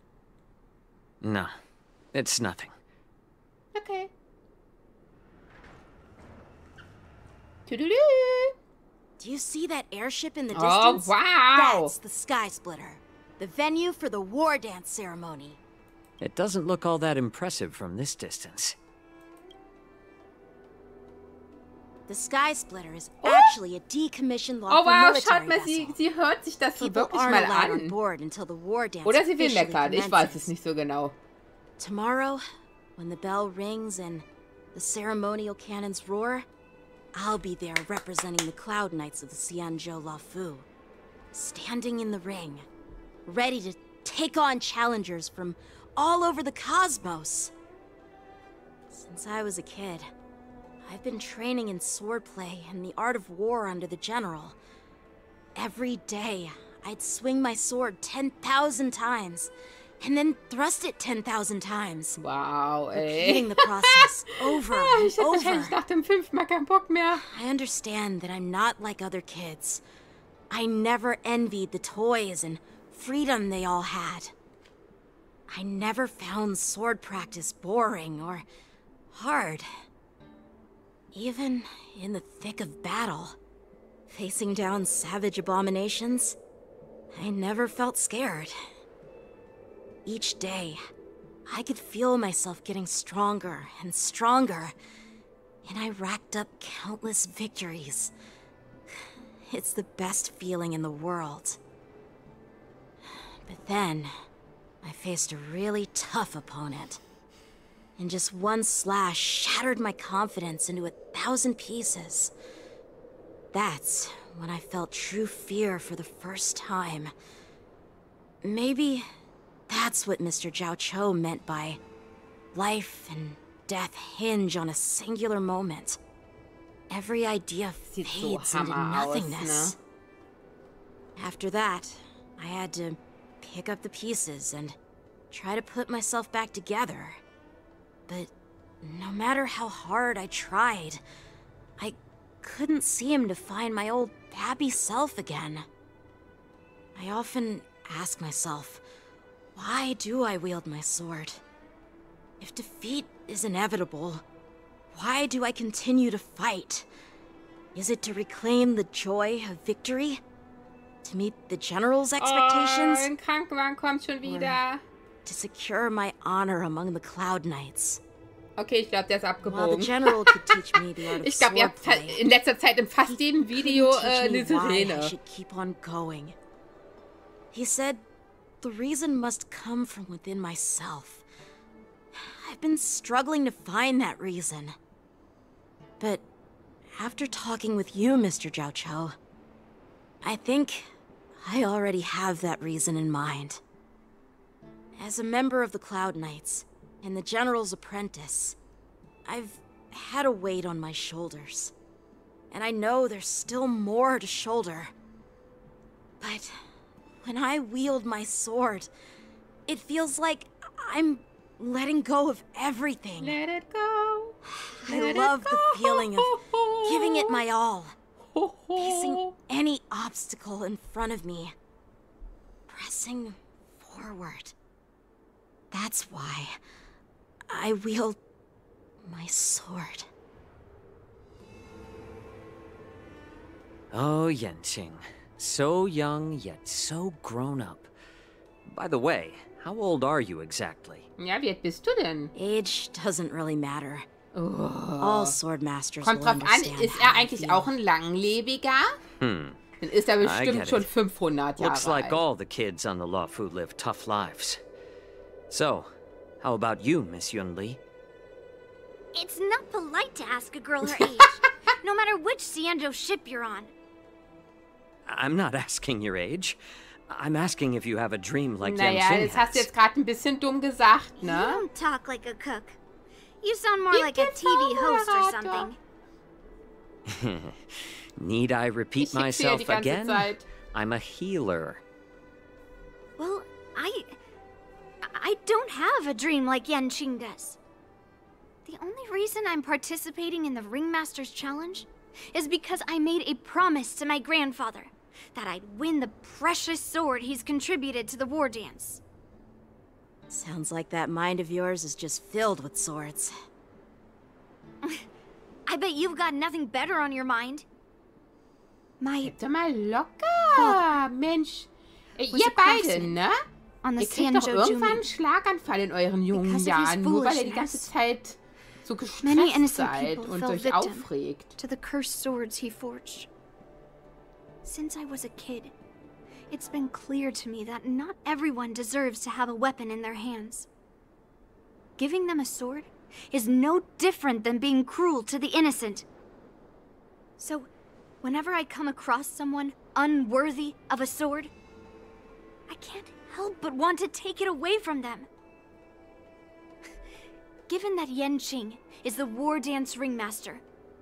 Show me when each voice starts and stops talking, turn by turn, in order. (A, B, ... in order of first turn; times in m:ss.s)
0:01.2-0:01.6 A
0:02.1-0:02.8 A
0:03.8-0:04.1 B
0:07.7-0:08.6 B
0:09.2-0:15.6 C
0:10.6-0:11.9 B
0:16.2-0:18.8 A
0:22.1-0:26.0 C
0:23.2-0:23.5 B
0:24.7-0:28.0 B
0:26.8-0:30.5 C
0:29.0-0:31.2 B
0:31.8-0:32.4 C
0:33.0-0:36.5 C
0:37.1-0:40.7 C
0:41.3-0:42.6 C
0:43.3-0:47.5 C
0:48.9-0:50.1 C
0:50.9-0:54.6 C
0:55.6-1:02.2 C
1:02.2-1:04.1 B
1:03.0-1:05.7 C
1:04.6-1:07.2 B
1:07.3-1:09.8 C
1:10.5-1:14.3 C
1:15.5-1:18.4 C
1:19.1-1:19.7 C
1:21.1-1:23.4 C
1:24.1-1:26.4 C
1:27.1-1:28.6 C
1:30.0-1:30.8 C
1:31.5-1:34.7 C
1:35.6-1:38.1 C
1:39.5-1:41.6 C
1:43.1-1:44.1 C
1:44.8-1:47.0 C
1:48.0-1:52.3 C
1:53.5-1:57.1 C
1:58.4-1:59.1 C
1:59.7-2:01.8 C
2:02.5-2:06.0 C
2:06.9-2:09.8 C
2:07.9-2:09.8 B
2:11.2-2:14.8 C
2:15.3-2:17.2 C
2:18.8-2:21.0 C
2:21.8-2:25.7 C
2:27.0-2:28.8 C
2:29.6-2:31.4 C
2:32.4-2:34.2 C
2:34.9-2:36.9 C
2:37.8-2:40.2 C
2:41.0-2:43.1 C
2:42.2-2:44.8 B
2:44.2-2:44.6 C
2:45.2-2:48.0 C
2:48.6-2:55.1 B
2:49.4-2:52.2 C
2:53.1-2:56.4 C
2:57.5-2:58.0 C
2:58.6-3:01.2 C
3:02.2-3:04.8 C
3:07.0-3:09.2 C
3:10.2-3:10.9 C
3:11.4-3:13.6 C
3:15.0-3:18.6 C
3:19.2-3:21.7 C
3:22.5-3:24.9 C
3:26.2-3:26.5 C
3:27.2-3:28.9 C
3:29.7-3:33.4 C
3:33.2-3:37.4 B
3:34.5-3:37.9 C
3:38.3-3:39.4 B
3:38.8-3:41.5 C
3:42.7-3:44.5 C
3:45.7-3:46.5 C
3:47.5-3:48.2 C
3:49.0-3:50.1 C
3:53.9-3:57.9 A
3:58.7-4:01.1 A
4:01.2-4:02.3 B
4:02.4-4:04.1 C
4:04.3-4:05.4 B
4:05.0-4:07.7 C
4:06.0-4:09.0 B
4:09.2-4:09.6 A
4:09.8-4:12.2 B
4:10.2-4:10.9 A
4:11.6-4:14.6 A
4:15.5-4:17.8 A
4:19.2-4:23.7 D
4:20.9-4:21.3 B
4:25.1-4:29.7 A
4:28.6-4:31.7 B
4:31.2-4:32.8 D
4:33.4-4:35.8 D
4:33.9-4:35.7 B
4:37.1-4:41.8 A
4:39.0-4:40.4 B
4:43.2-4:44.2 D
4:45.0-4:47.6 D
4:48.6-4:59.0 D
5:00.3-5:03.3 C
5:05.7-5:07.6 D
5:09.0-5:09.4 D
5:09.2-5:13.4 B
5:10.5-5:11.0 D
5:12.3-5:13.2 D
5:13.8-5:15.1 D
5:14.0-5:21.5 B
5:16.3-5:17.9 D
5:19.2-5:23.3 D
5:24.6-5:25.7 D
5:26.5-5:30.7 D
5:32.0-5:36.0 D
5:37.4-5:37.7 D
5:38.2-5:41.5 D
5:42.7-5:45.3 D
5:47.7-5:50.6 D